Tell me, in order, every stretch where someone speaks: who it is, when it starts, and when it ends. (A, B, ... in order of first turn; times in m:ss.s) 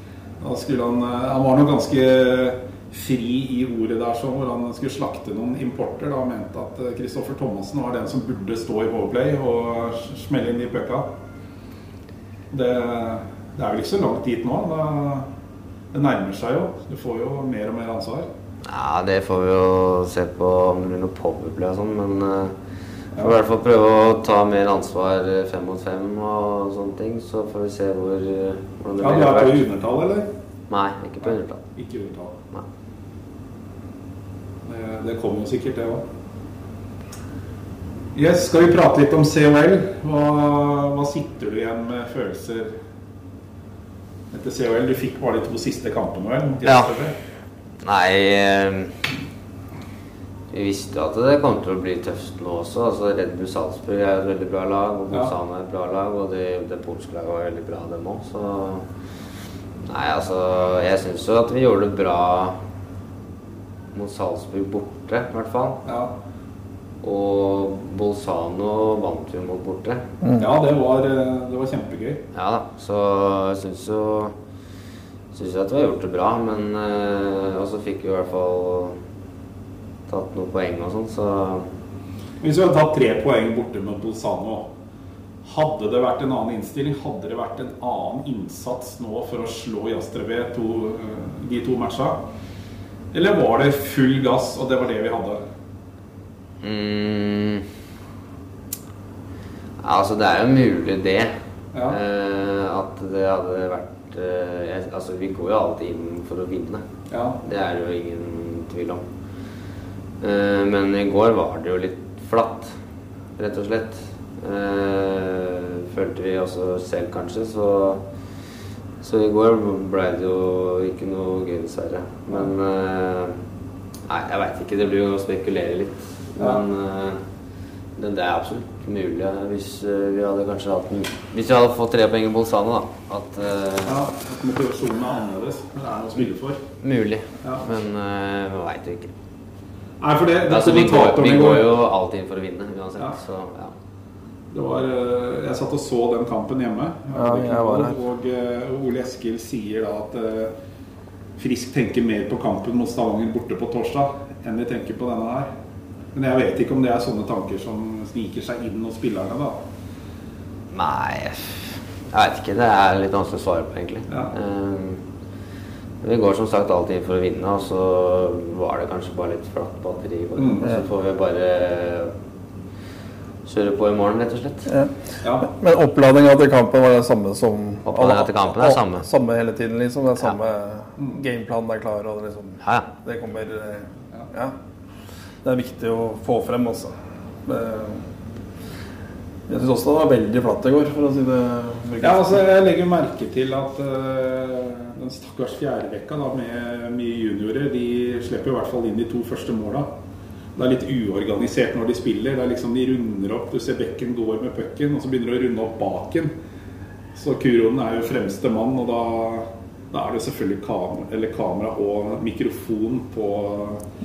0:00.4-0:11.1 A
0:12.5-0:15.3 A
0:15.9-0:18.3 A
0:18.6-0:22.6 B
0:23.2-0:29.6 B
0:29.0-0:30.3 A
0:30.7-0:31.6 B
0:31.2-0:32.4 A
0:34.6-0:36.0 A
0:38.1-0:42.8 A
0:44.3-0:47.1 A
0:47.8-0:49.1 B
0:50.5-0:58.9 B
0:59.8-1:02.6 B
1:03.9-1:05.8 B
1:05.8-1:06.1 A
1:07.0-1:10.1 B
1:10.4-1:12.2 A
1:12.3-1:14.4 B
1:15.3-1:19.0 B
1:20.1-1:21.7 B
1:22.4-1:24.7 A
1:25.4-1:32.2 A
1:33.1-1:35.4 A
1:36.6-1:37.7 B
1:39.8-1:46.9 B
1:41.7-1:42.0 A
1:47.1-1:47.4 A
1:47.4-1:49.0 B
1:50.2-1:52.8 B
1:53.4-1:58.1 B
1:59.0-2:03.4 B
2:04.1-2:07.2 B
2:06.4-2:06.6 A
2:08.0-2:14.0 B
2:13.8-2:16.6 A
2:16.8-2:19.1 B
2:20.0-2:21.7 A
2:20.5-2:23.7 B
2:24.5-2:30.5 A
2:27.1-2:28.0 C
2:31.4-2:35.5 A
2:36.1-2:39.6 A
2:40.7-2:45.0 B
2:46.0-2:52.1 B
2:50.4-2:50.7 A
2:53.4-2:54.7 B
2:54.7-3:04.5 C
2:55.2-2:55.5 A
2:57.8-2:59.0 B
3:02.6-3:02.9 B
3:05.4-3:06.9 C
3:07.4-3:08.1 C
3:09.5-3:12.3 C
3:12.0-3:19.9 A
3:20.5-3:26.3 A
3:27.1-3:33.8 A